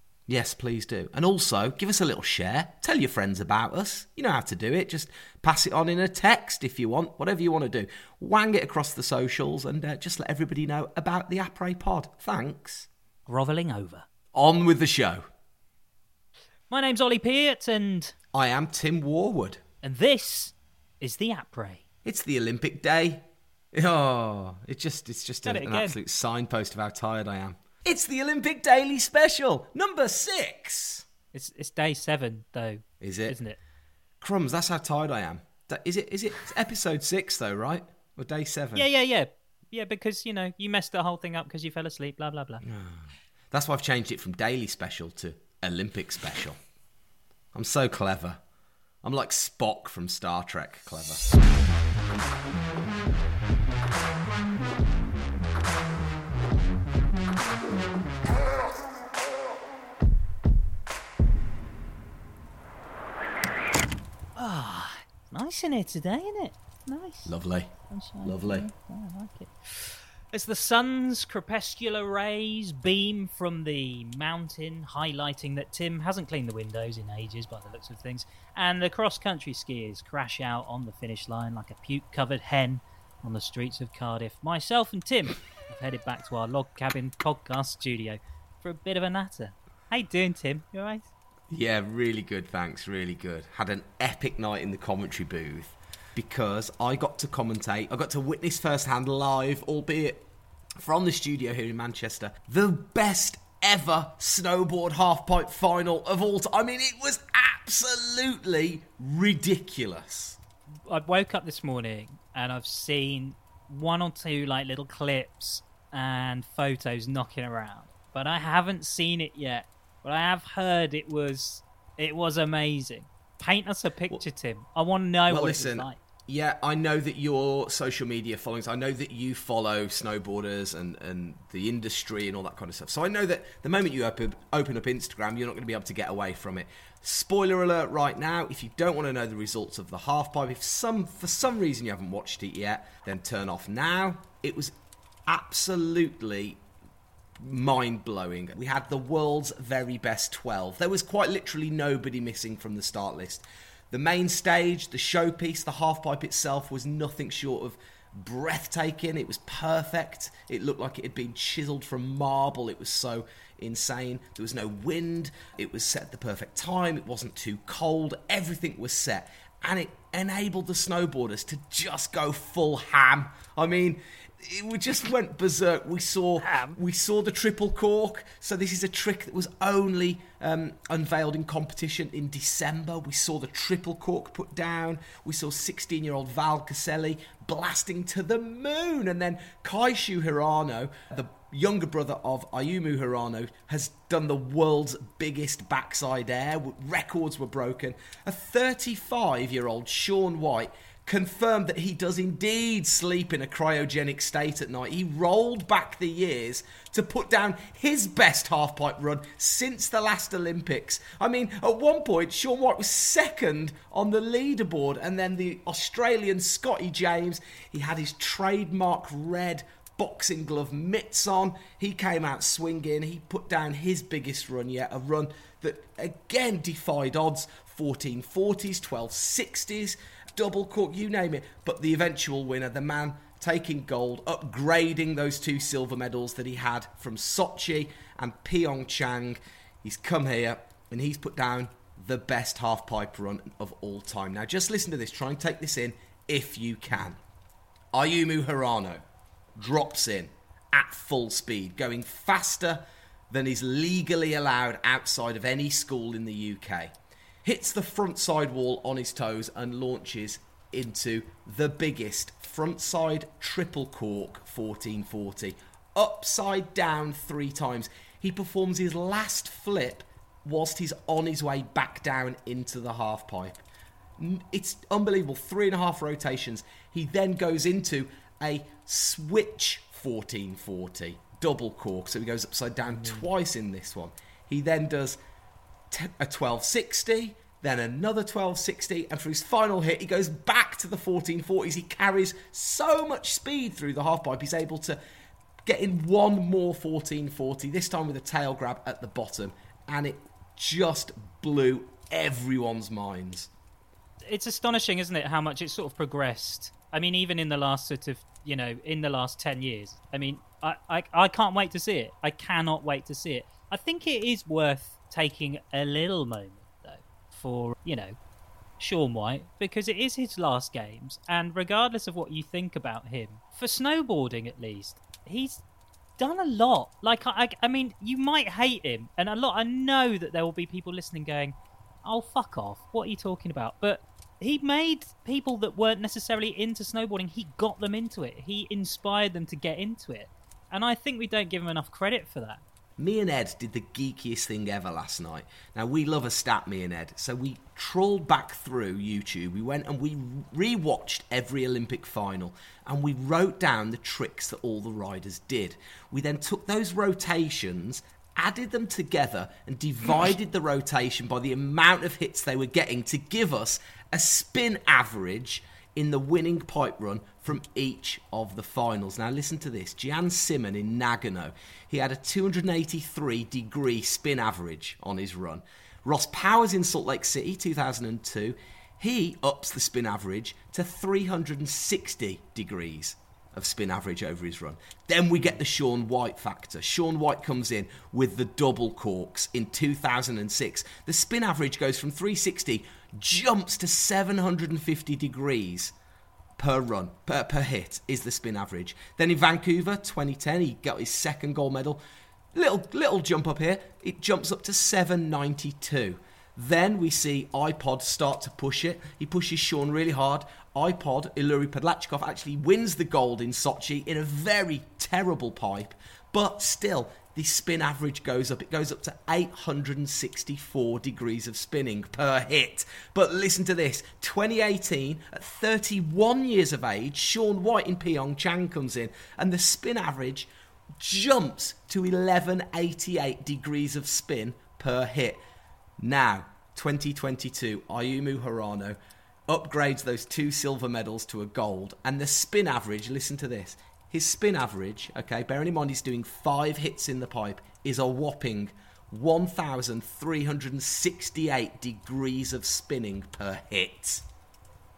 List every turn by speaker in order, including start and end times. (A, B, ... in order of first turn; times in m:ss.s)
0:00.3-0:12.9 A
0:13.3-0:14.1 B
0:14.3-0:15.2 A
0:16.7-0:18.1 B
0:18.3-0:19.6 A
0:19.8-0:21.8 B
0:22.0-0:31.1 A
0:25.4-0:26.0 B
0:31.3-0:33.6 B
0:33.0-0:33.4 A
0:34.2-0:38.9 A
0:38.7-0:42.6 B
0:42.6-0:46.6 A
0:47.5-0:48.4 A
0:49.0-0:51.3 A
1:04.4-1:07.3 B
1:07.2-1:07.7 A
1:07.9-1:31.1 B
1:08.2-1:08.6 A
1:31.5-1:40.2 A
1:40.8-1:50.4 A
1:50.8-2:06.0 B
2:05.3-2:24.7 A
2:25.3-2:26.6 A
2:27.4-4:07.2 A
2:56.4-2:56.8 B
4:07.9-4:09.0 A
4:09.6-4:33.6 A
4:34.2-4:45.2 A
4:45.9-4:55.0 A
4:55.6-5:03.5 A
5:04.2-5:18.2 B
5:18.8-5:25.6 B
5:26.2-5:42.6 B
5:43.0-6:35.9 A
6:36.6-6:42.0 A
6:42.5-7:15.4 A
7:16.0-7:19.0 A
7:19.5-7:34.2 A